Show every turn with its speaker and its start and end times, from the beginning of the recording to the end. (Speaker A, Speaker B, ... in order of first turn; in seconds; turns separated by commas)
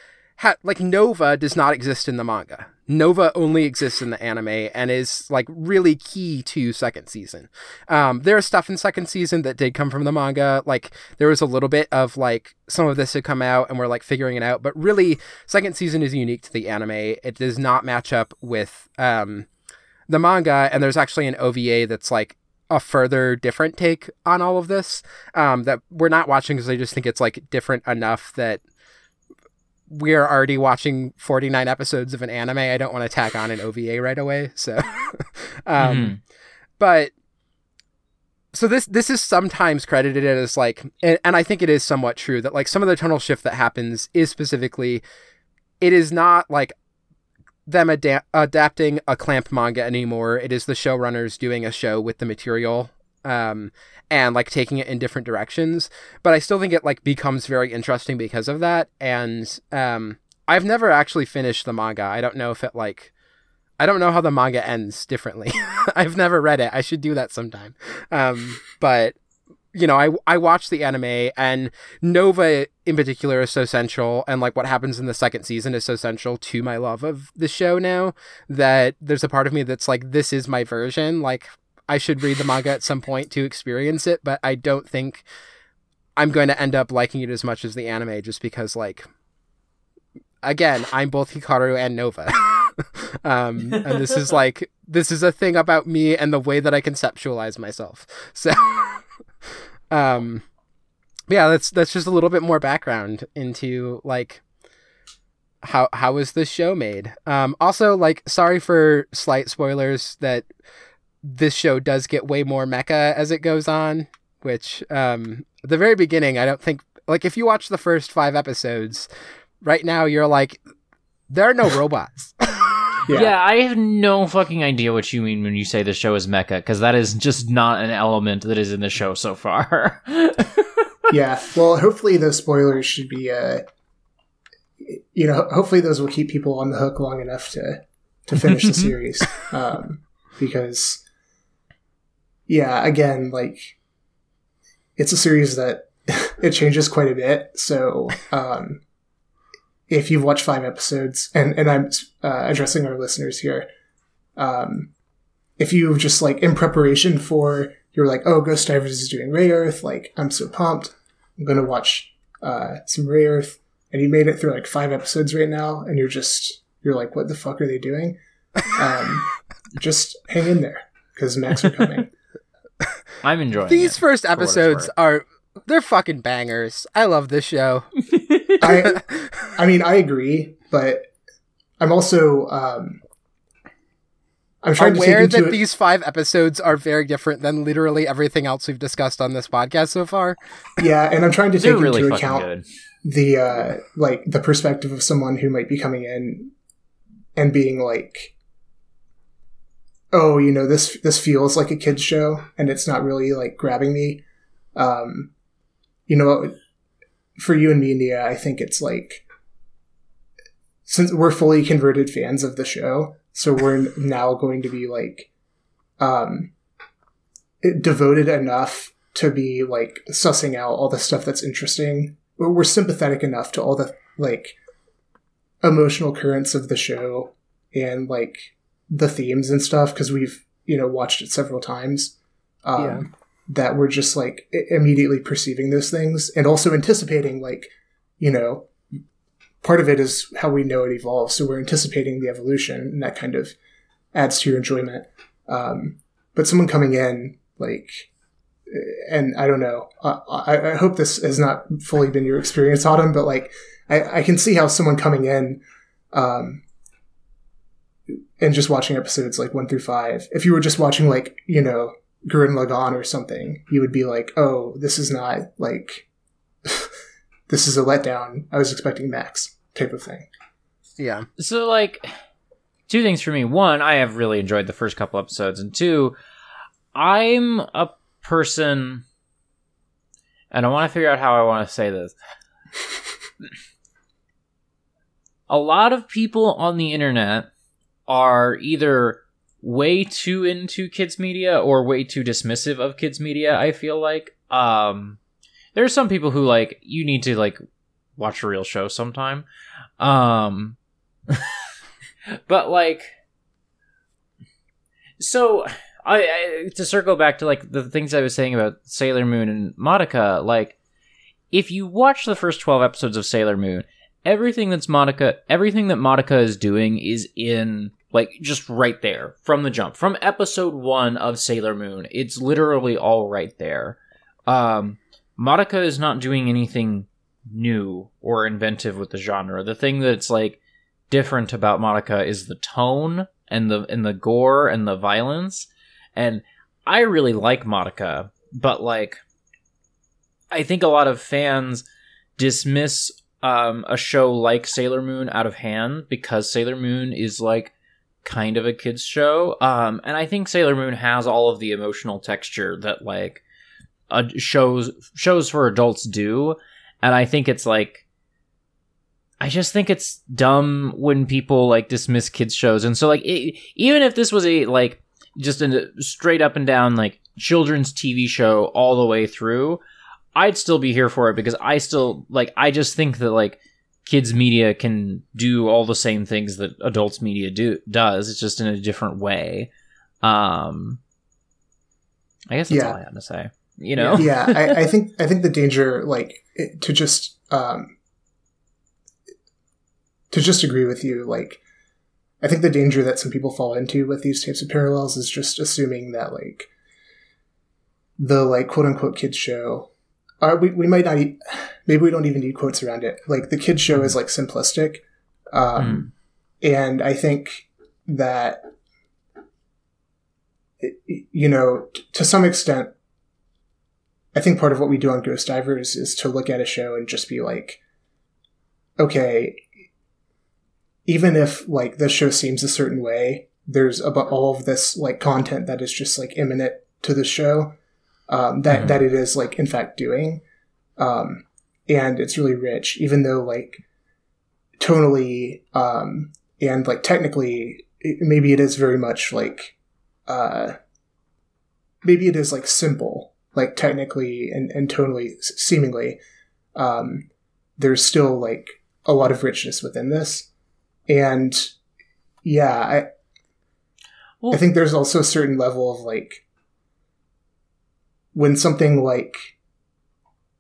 Speaker A: 0.4-19.5, Speaker A: 20.1-28.6, Speaker A: 29.9-36.2, Speaker B: 35.8-36.2, Speaker A: 36.8-37.1, Speaker A: 38.5-45.0, Speaker A: 45.8-46.8, Speaker A: 47.7-63.1, Speaker A: 63.8-69.2, Speaker A: 69.7-85.2, Speaker A: 86.2-89.1, Speaker A: 90.4-99.0, Speaker A: 99.9-100.5, Speaker A: 101.3-104.4, Speaker A: 105.6-110.5, Speaker A: 111.2-119.1, Speaker A: 119.6-120.6, Speaker A: 121.3-122.7, Speaker C: 123.1-123.3, Speaker B: 123.1-130.7, Speaker C: 131.1-133.6, Speaker C: 134.8-141.0, Speaker B: 138.4-138.9, Speaker C: 142.5-143.8, Speaker C: 145.0-148.8, Speaker C: 149.9-153.7, Speaker C: 154.4-154.9, Speaker C: 155.6-172.1, Speaker B: 173.2-174.9, Speaker A: 173.7-177.9, Speaker B: 178.2-178.5, Speaker C: 178.6-181.1, Speaker A: 178.9-179.3, Speaker C: 181.8-183.0, Speaker C: 184.6-185.6, Speaker A: 184.8-190.4, Speaker C: 190.8-192.4, Speaker B: 191.6-192.6, Speaker C: 193.1-196.5, Speaker C: 197.4-198.3, Speaker C: 200.1-204.2, Speaker C: 204.8-205.3, Speaker C: 206.1-206.6, Speaker C: 207.4-209.2, Speaker C: 210.9-215.3, Speaker C: 216.0-216.5, Speaker C: 217.6-224.6, Speaker C: 225.6-238.7, Speaker A: 232.8-233.1, Speaker C: 239.6-243.6, Speaker C: 244.1-248.1, Speaker C: 248.7-255.6, Speaker C: 256.1-256.6, Speaker C: 258.4-266.1, Speaker C: 267.5-270.3, Speaker A: 271.0-271.3, Speaker B: 271.4-272.1, Speaker B: 272.9-276.1, Speaker B: 276.9-279.0, Speaker B: 280.5-282.1, Speaker B: 285.5-287.5, Speaker B: 288.1-295.2, Speaker B: 295.8-297.6, Speaker B: 298.2-299.5, Speaker B: 300.0-300.8, Speaker B: 301.3-301.6, Speaker B: 302.5-303.1, Speaker B: 305.2-310.8, Speaker B: 311.5-324.0, Speaker B: 324.5-330.6, Speaker B: 331.1-339.2, Speaker B: 340.5-341.9, Speaker B: 342.4-347.7, Speaker B: 348.2-353.4, Speaker B: 354.1-358.0, Speaker B: 359.4-369.8, Speaker B: 370.4-379.7, Speaker B: 380.2-381.0, Speaker B: 382.5-384.9, Speaker C: 382.7-383.0, Speaker C: 384.0-387.9, Speaker C: 390.3-391.6, Speaker C: 392.4-396.7, Speaker C: 398.2-399.9, Speaker C: 400.4-406.1, Speaker B: 405.8-406.1, Speaker C: 406.6-408.7, Speaker C: 410.8-412.9, Speaker C: 414.3-417.8, Speaker C: 419.0-419.6, Speaker C: 421.1-427.8, Speaker C: 428.3-430.4, Speaker B: 428.7-429.0, Speaker C: 431.0-433.8, Speaker C: 434.8-439.7, Speaker C: 440.3-440.8, Speaker C: 442.0-446.2, Speaker C: 446.8-447.3, Speaker C: 447.8-450.5, Speaker C: 451.1-451.7, Speaker C: 452.4-453.1, Speaker C: 454.5-456.4, Speaker C: 458.3-459.5